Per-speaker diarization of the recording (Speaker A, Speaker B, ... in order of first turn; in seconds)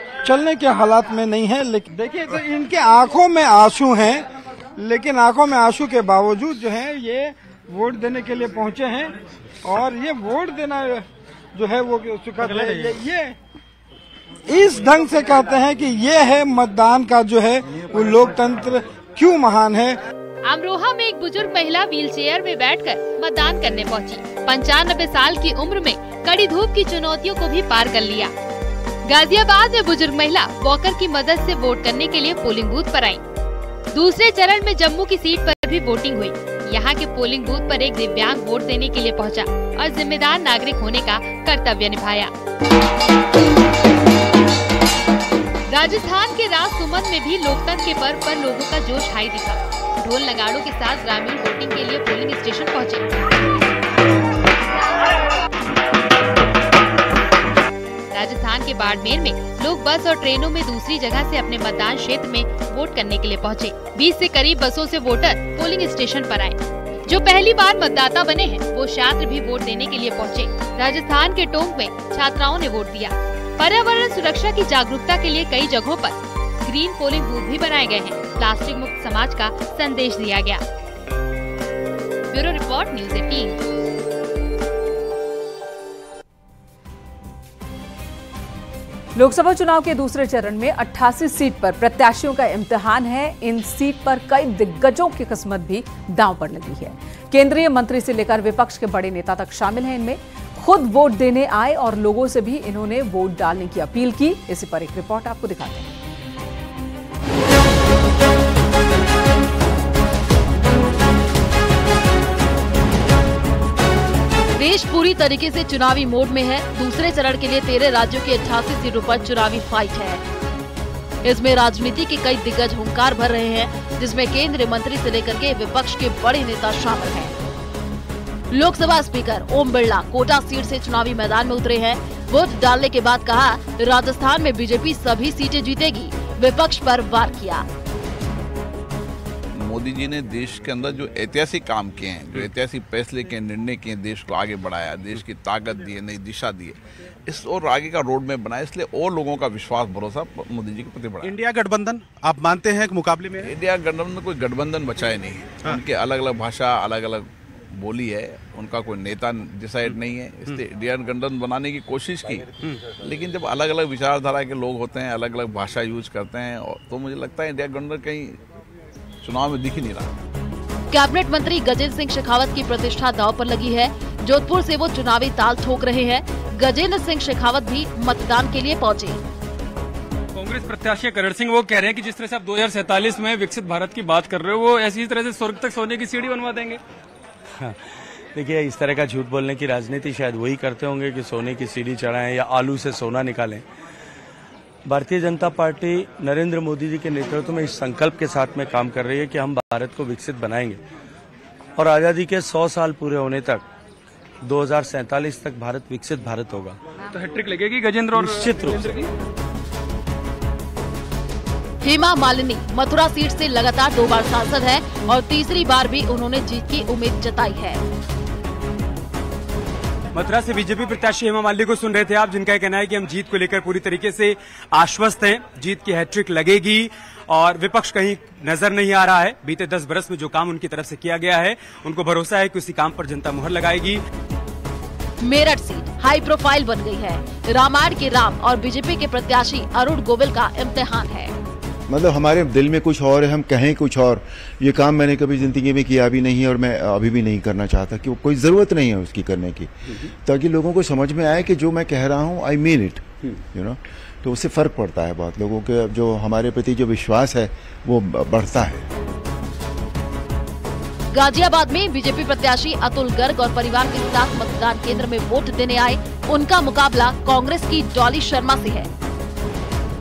Speaker A: 0.2-13.3, 14.5-20.0
Speaker B: 20.4-28.3, 29.1-33.2, 33.9-42.3, 45.7-53.0, 58.1-80.6, 82.3-83.6
Speaker C: 89.1-105.9
Speaker D: 114.6-120.2, 121.2-127.3, 128.5-137.7, 170.9-179.2, 211.8-217.8, 235.2-241.3, 261.1-268.9
Speaker E: 139.6-151.4, 153.4-168.4, 169.2-170.2
Speaker F: 151.2-153.5, 159.8-160.6, 162.6-162.9
Speaker G: 180.3-186.8, 207.1-209.1, 220.1-234.0
Speaker H: 188.3-193.6, 194.8-200.8, 201.8-203.6, 204.4-206.8, 208.1-208.9
Speaker I: 241.9-258.9